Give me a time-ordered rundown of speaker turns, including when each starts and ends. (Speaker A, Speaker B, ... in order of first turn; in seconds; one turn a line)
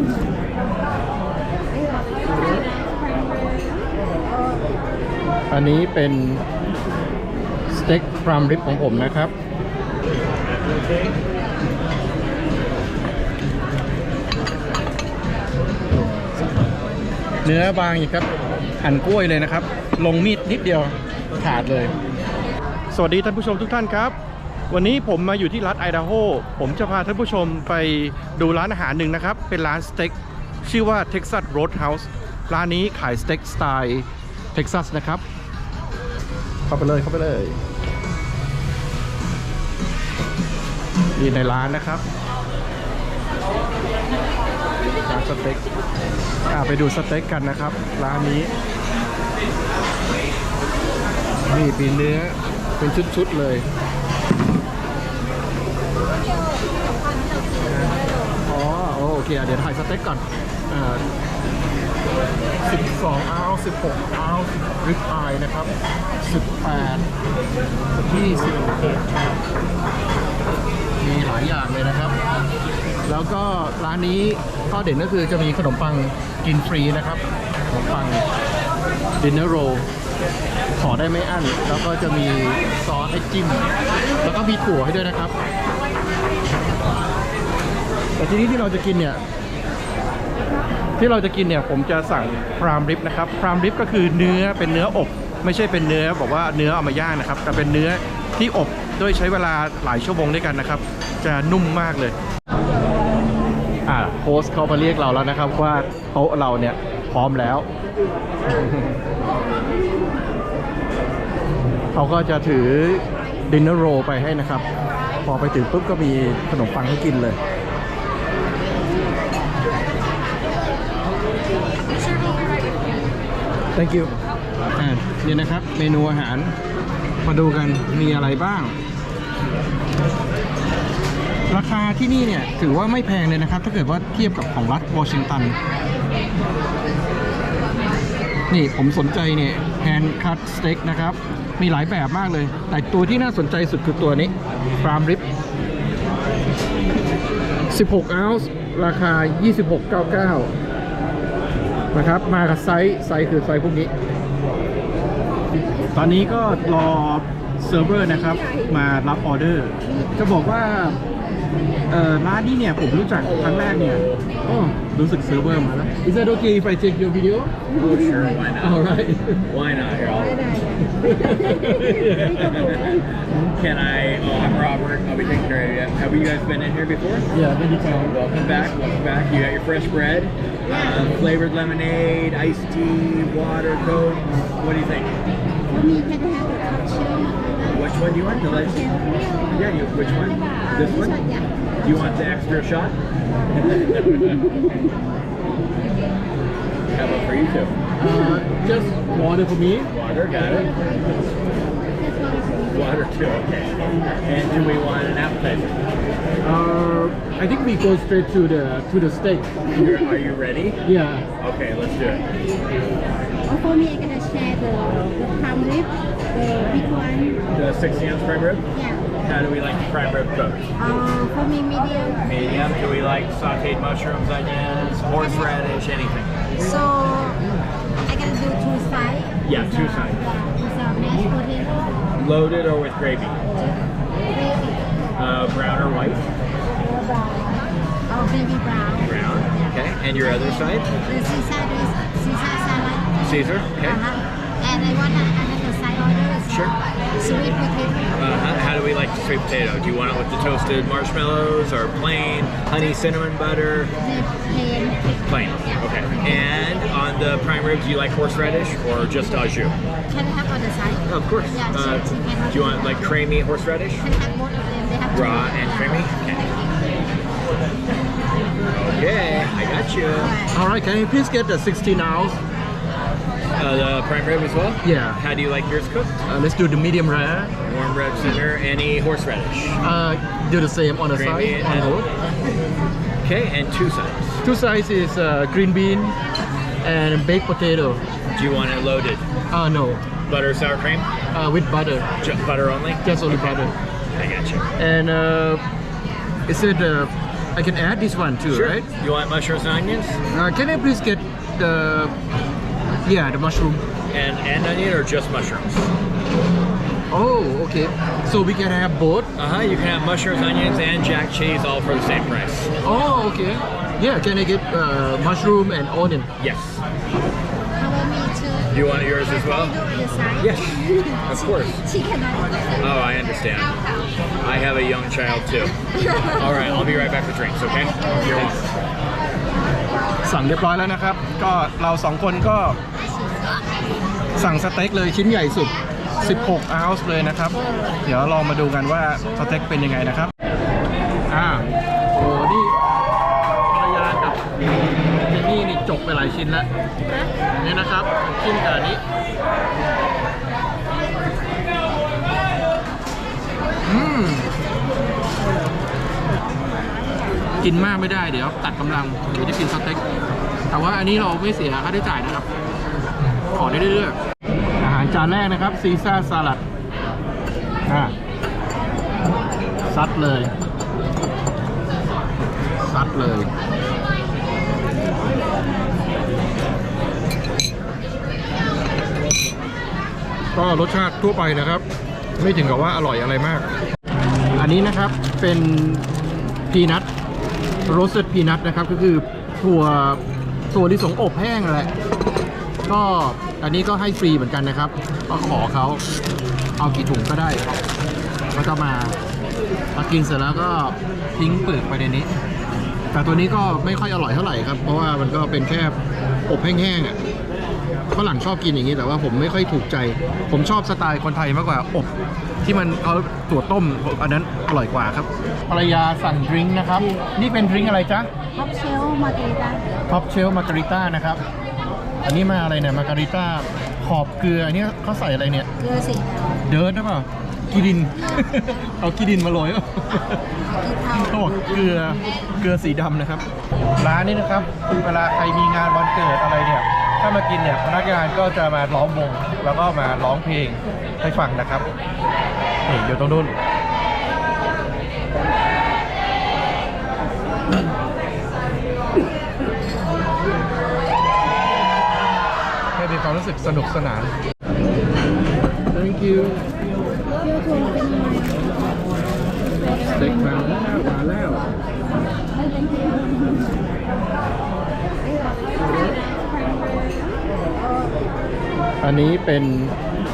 Speaker A: 3.2-3.6
Speaker B: 5.5-6.4
Speaker B: 7.7-9.3
Speaker B: 17.4-18.3
Speaker B: 18.8-21.9
Speaker B: 22.9-24.2
Speaker B: 24.7-35.2
Speaker B: 36.7-37.6
Speaker B: 41.2-42.0
Speaker B: 45.0-45.6
Speaker B: 46.5-48.5
Speaker B: 51.5-53.7
Speaker B: 57.6-57.9
Speaker B: 58.5-61.0
Speaker B: 62.6-65.7
Speaker B: 66.2-67.0
Speaker B: 68.0-69.0
Speaker B: 71.0-72.2
Speaker B: 73.1-78.2
Speaker B: 79.2-79.9
Speaker B: 80.8-83.7
Speaker B: 84.2-85.3
Speaker B: 88.2-89.2
Speaker B: 91.0-102.2
Speaker B: 103.9-107.7
Speaker B: 108.5-109.0
Speaker B: 111.9-114.7
Speaker B: 115.2-117.4
Speaker B: 123.8-124.1
Speaker B: 124.8-126.5
Speaker B: 127.2-128.8
Speaker B: 131.5-135.6
Speaker B: 138.5-145.2
Speaker B: 147.7-150.5
Speaker B: 151.9-153.9
Speaker B: 155.9-161.0
Speaker B: 161.9-167.5
Speaker C: 163.2-164.2
Speaker C: 167.7-168.9
Speaker B: 168.6-169.4
Speaker C: 169.5-170.6
Speaker B: 170.9-172.7
Speaker C: 172.0-177.3
Speaker B: 177.3-178.1
Speaker C: 178.0-185.2
Speaker A: 180.7-181.0
Speaker A: 185.7-189.6
Speaker C: 187.7-188.9
Speaker C: 189.5-191.2
Speaker A: 190.7-191.5
Speaker C: 191.8-193.0
Speaker C: 193.5-194.6
Speaker C: 196.9-197.8
Speaker B: 198.0-199.9
Speaker C: 199.9-200.7
Speaker A: 200.6-201.2
Speaker A: 202.0-202.8
Speaker C: 202.7-205.8
Speaker B: 206.4-209.5
Speaker C: 209.7-210.8
Speaker B: 210.8-211.3
Speaker C: 211.4-212.3
Speaker A: 213.5-217.4
Speaker C: 217.5-218.7
Speaker A: 218.7-219.1
Speaker C: 219.2-220.7
Speaker A: 220.8-222.4
Speaker C: 222.2-226.3
Speaker A: 225.2-225.5
Speaker A: 226.6-227.4
Speaker A: 228.1-231.9
Speaker C: 229.4-230.3
Speaker C: 232.2-233.4
Speaker A: 234.3-234.8
Speaker C: 235.2-236.2
Speaker A: 237.2-239.2
Speaker C: 239.0-240.9
Speaker A: 241.1-248.1
Speaker C: 243.2-244.0
Speaker C: 246.5-246.8
Speaker C: 248.2-253.9
Speaker A: 254.0-255.1
Speaker C: 255.2-259.8
Speaker A: 260.1-263.1
Speaker C: 261.1-264.1
Speaker A: 264.0-266.1
Speaker C: 265.1-266.5
Speaker C: 268.9-270.3
Speaker A: 270.2-270.6
Speaker B: 270.5-272.4
Speaker C: 273.6-276.1
Speaker B: 274.8-275.2
Speaker B: 276.3-277.5
Speaker C: 277.6-279.8
Speaker B: 279.8-282.1
Speaker C: 281.1-282.0
Speaker C: 283.2-284.4
Speaker B: 284.4-286.2
Speaker B: 286.8-288.0
Speaker C: 288.3-289.2
Speaker B: 289.5-290.0
Speaker C: 290.2-291.1
Speaker B: 291.3-292.1
Speaker C: 292.2-293.0
Speaker B: 293.0-293.7
Speaker C: 294.2-294.7
Speaker B: 294.8-295.6
Speaker B: 296.5-298.9
Speaker C: 298.5-300.2
Speaker B: 300.3-302.1
Speaker B: 303.0-303.8
Speaker C: 304.1-305.9
Speaker B: 307.1-309.3
Speaker C: 309.4-312.7
Speaker B: 312.8-316.3
Speaker C: 316.4-316.8
Speaker A: 317.8-322.6
Speaker C: 318.7-319.8
Speaker C: 320.4-321.9
Speaker C: 322.8-323.8
Speaker C: 324.4-325.7
Speaker A: 326.1-326.4
Speaker C: 326.2-328.7
Speaker A: 328.0-328.5
Speaker B: 330.2-332.8
Speaker A: 333.1-333.7
Speaker B: 334.4-340.3
Speaker B: 341.3-342.8
Speaker B: 343.7-344.4
Speaker B: 345.2-346.7
Speaker B: 347.6-349.0
Speaker B: 353.9-354.5
Speaker B: 357.6-360.0
Speaker B: 360.7-362.5
Speaker B: 363.5-364.2
Speaker B: 364.8-366.6
Speaker B: 367.9-368.1
Speaker B: 369.9-370.5
Speaker B: 372.8-373.5
Speaker B: 380.5-381.8
Speaker B: 382.4-383.7
Speaker B: 384.5-387.1
Speaker B: 387.9-391.9
Speaker B: 392.9-396.0
Speaker B: 396.8-397.8
Speaker B: 398.5-399.2
Speaker B: 399.9-402.3
Speaker B: 403.1-406.0
Speaker B: 406.5-407.2
Speaker B: 408.1-412.1
Speaker B: 412.6-418.3
Speaker A: 418.6-419.9
Speaker B: 420.1-421.4
Speaker B: 422.2-425.7
Speaker A: 425.8-426.6
Speaker B: 426.6-430.4
Speaker A: 428.2-428.5
Speaker A: 430.7-431.5
Speaker B: 431.1-433.4
Speaker B: 434.0-441.9
Speaker B: 442.9-443.6
Speaker B: 452.9-454.3
Speaker B: 455.9-456.7
Speaker A: 457.4-458.9
Speaker A: 459.8-460.1
Speaker B: 459.9-461.6
Speaker B: 469.0-469.9